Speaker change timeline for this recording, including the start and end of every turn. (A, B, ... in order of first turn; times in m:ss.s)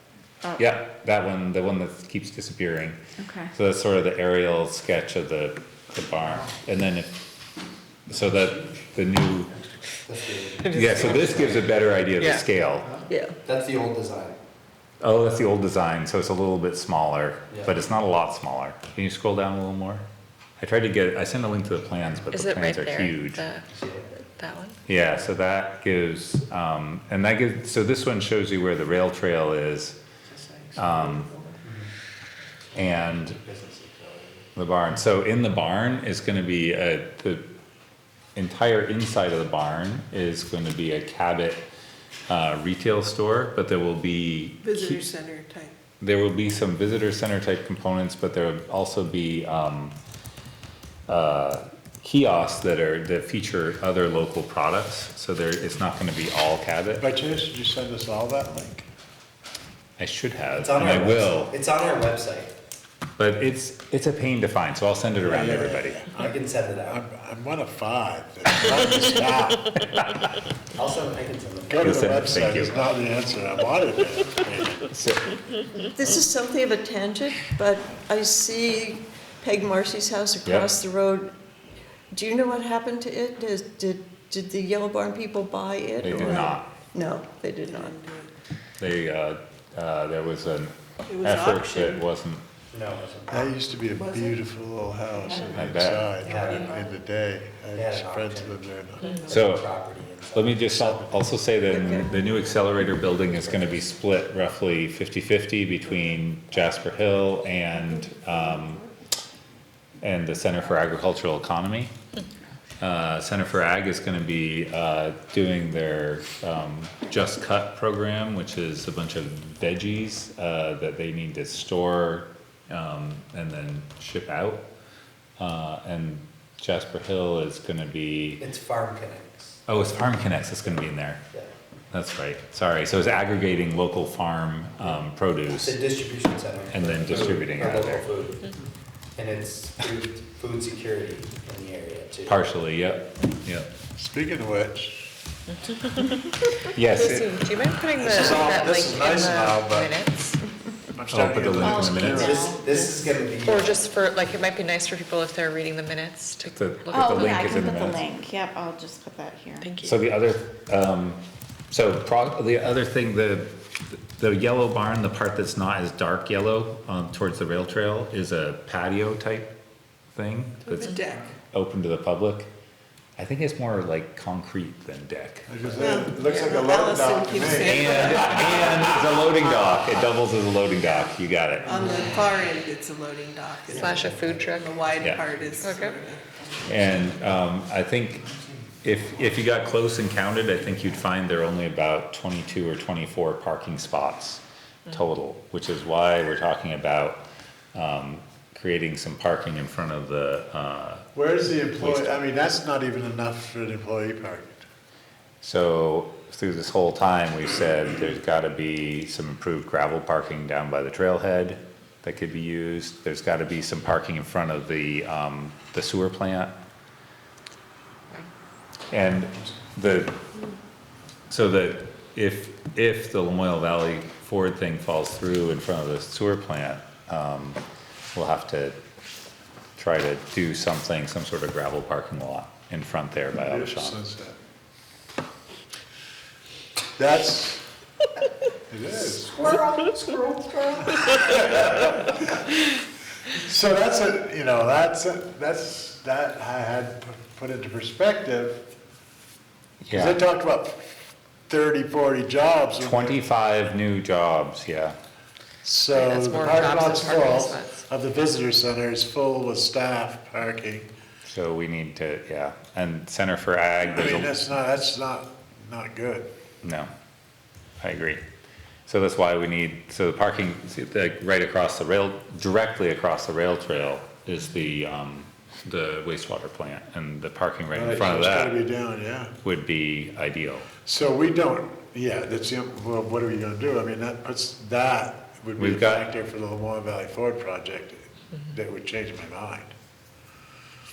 0:00.6-0:03.0 A
0:03.2-0:03.5 B
0:03.5-0:07.2 A
0:08.1-0:09.5 A
0:10.0-0:11.8 C
0:10.6-0:11.3 D
0:10.7-0:12.9 A
0:12.2-0:12.4 D
0:13.1-0:13.4 E
0:13.4-0:14.4 C
0:15.0-0:20.0 A
0:20.6-0:23.4 A
0:22.3-0:23.7 D
0:23.7-0:24.2 C
0:24.4-0:24.8 D
0:24.9-0:30.0 A
0:30.4-0:31.7 F
0:30.7-0:31.3 A
0:32.8-0:33.4 A
0:32.8-0:34.4 C
0:34.6-0:37.5 A
0:38.4-0:41.7 A
0:42.3-0:45.0 A
0:44.6-0:45.8 F
0:46.0-0:50.0 A
0:51.1-0:57.1 A
0:57.0-0:58.8 G
1:00.0-1:01.6 A
1:00.5-1:02.5 C
1:03.2-1:06.1 A
1:05.2-1:05.6 C
1:05.2-1:09.9 G
1:06.1-1:07.0 C
1:10.8-1:12.2 C
1:11.7-1:14.9 G
1:11.8-1:12.8 A
1:14.9-1:15.2 A
1:15.9-1:21.3 E
1:20.4-1:20.7 A
1:22.1-1:28.0 E
1:26.0-1:26.7 A
1:26.2-1:26.5 F
1:27.7-1:28.3 F
1:28.8-1:32.4 A
1:31.1-1:32.0 F
1:32.7-1:33.5 C
1:33.3-1:39.0 G
1:33.9-1:34.4 F
1:35.4-1:36.9 F
1:35.5-1:36.1 A
1:36.2-1:36.9 C
1:37.7-1:41.1 C
1:39.0-1:39.3 D
1:39.0-1:39.4 F
1:39.3-1:39.7 A
1:40.3-1:48.9 A
1:50.0-1:51.9 A
1:52.8-2:04.6 A
2:05.4-2:08.5 A
2:08.4-2:09.6 C
2:09.7-2:11.2 A
2:10.6-2:11.5 C
2:11.9-2:15.8 A
2:15.5-2:18.5 C
2:16.7-2:18.1 A
2:19.2-2:22.4 C
2:22.3-2:23.7 A
2:24.0-2:25.1 G
2:25.6-2:26.2 D
2:26.7-2:27.3 A
2:26.9-2:30.4 D
2:28.0-2:30.0 G
2:30.9-2:32.4 G
2:31.1-2:32.3 A
2:31.6-2:33.0 B
2:32.1-2:33.9 C
2:33.4-2:37.9 D
2:36.4-2:38.0 A
2:36.9-2:39.6 B
2:39.6-2:39.9 D
2:39.8-2:49.5 A
2:50.1-2:51.0 A
2:50.7-2:51.3 F
2:51.5-2:52.5 A
2:53.2-2:55.5 A
2:55.5-2:58.5 G
2:55.8-2:59.2 F
2:57.6-3:01.7 A
3:01.6-3:06.2 F
3:01.7-3:02.1 C
3:03.7-3:04.7 D
3:03.8-3:04.4 C
3:05.0-3:05.2 A
3:05.6-3:06.0 D
3:06.6-3:08.3 A
3:08.8-3:21.1 A
3:21.2-3:24.6 G
3:21.8-3:22.1 A
3:25.4-3:36.5 A
3:38.9-3:40.2 A
3:41.3-3:47.6 A
3:48.1-3:48.8 A
3:49.8-3:54.0 A
3:53.3-3:54.3 G
3:57.0-3:57.6 G
3:58.7-4:02.4 G
4:03.4-4:08.6 G
4:09.8-4:10.2 A
4:09.9-4:10.8 G
4:11.5-4:13.2 G
4:12.8-4:15.0 A
4:15.6-4:20.9 G
4:15.9-4:17.8 D
4:21.2-4:24.4 A
4:23.9-4:26.3 G
4:26.6-4:26.9 A
4:27.8-4:28.2 A
4:28.9-4:38.6 A
4:37.7-4:39.3 G
4:39.4-4:40.7 A
4:40.8-4:49.7 G
4:45.6-4:46.1 A